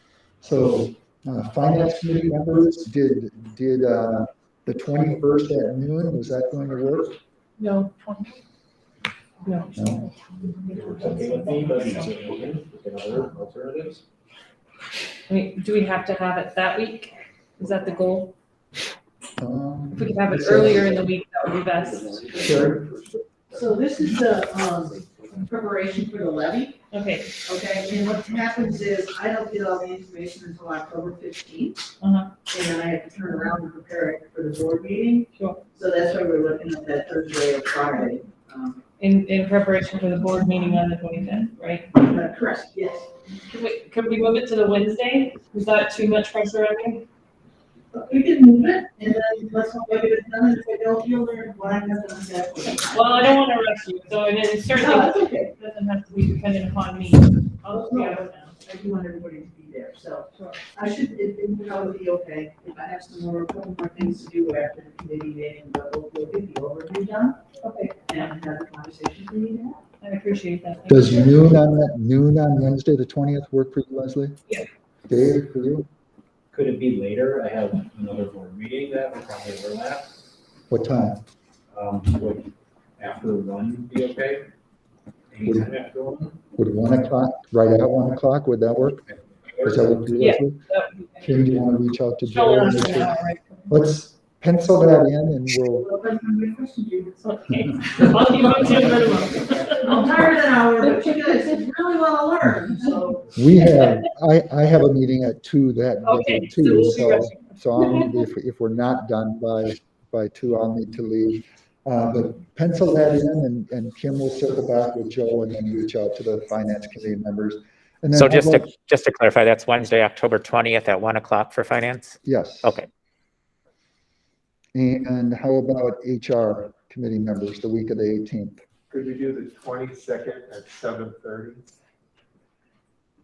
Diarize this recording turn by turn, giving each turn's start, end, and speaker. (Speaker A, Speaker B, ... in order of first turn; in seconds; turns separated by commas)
Speaker A: 0.4-7.2, Speaker B: 7.6-8.3, Speaker B: 9.4-9.8, Speaker A: 9.8-10.1, Speaker C: 10.7-14.0, Speaker B: 15.3-18.3, Speaker A: 19.4-21.1, Speaker B: 19.9-22.3, Speaker A: 22.3-22.9, Speaker D: 23.5-26.8, Speaker B: 26.9-27.3, Speaker D: 27.4-31.9, Speaker B: 32.0-32.3, Speaker D: 32.5-38.8, Speaker B: 35.3-35.6, Speaker B: 39.0-41.9, Speaker D: 41.9-43.1, Speaker B: 43.5-47.0, Speaker D: 47.9-53.3, Speaker B: 52.9-58.6, Speaker D: 54.7-55.5, Speaker D: 57.7-67.4, Speaker B: 60.3-60.6, Speaker B: 67.6-68.2, Speaker D: 68.0-69.8, Speaker B: 70.0-71.3, Speaker A: 70.9-74.4, Speaker A: 75.1-75.9, Speaker C: 76.5-80.1, Speaker A: 80.7-81.2, Speaker C: 81.7-84.5, Speaker C: 85.3-86.4, Speaker A: 86.6-89.1, Speaker C: 89.5-89.9, Speaker A: 89.6-90.7, Speaker B: 90.2-91.3, Speaker A: 91.2-96.0, Speaker B: 92.3-93.7, Speaker D: 95.8-97.2, Speaker B: 97.2-100.2, Speaker D: 99.6-103.4, Speaker B: 100.8-101.5, Speaker A: 103.3-118.7, Speaker B: 106.0-108.2, Speaker E: 118.1-122.9, Speaker A: 122.2-122.8, Speaker A: 124.8-128.6, Speaker F: 128.9-131.6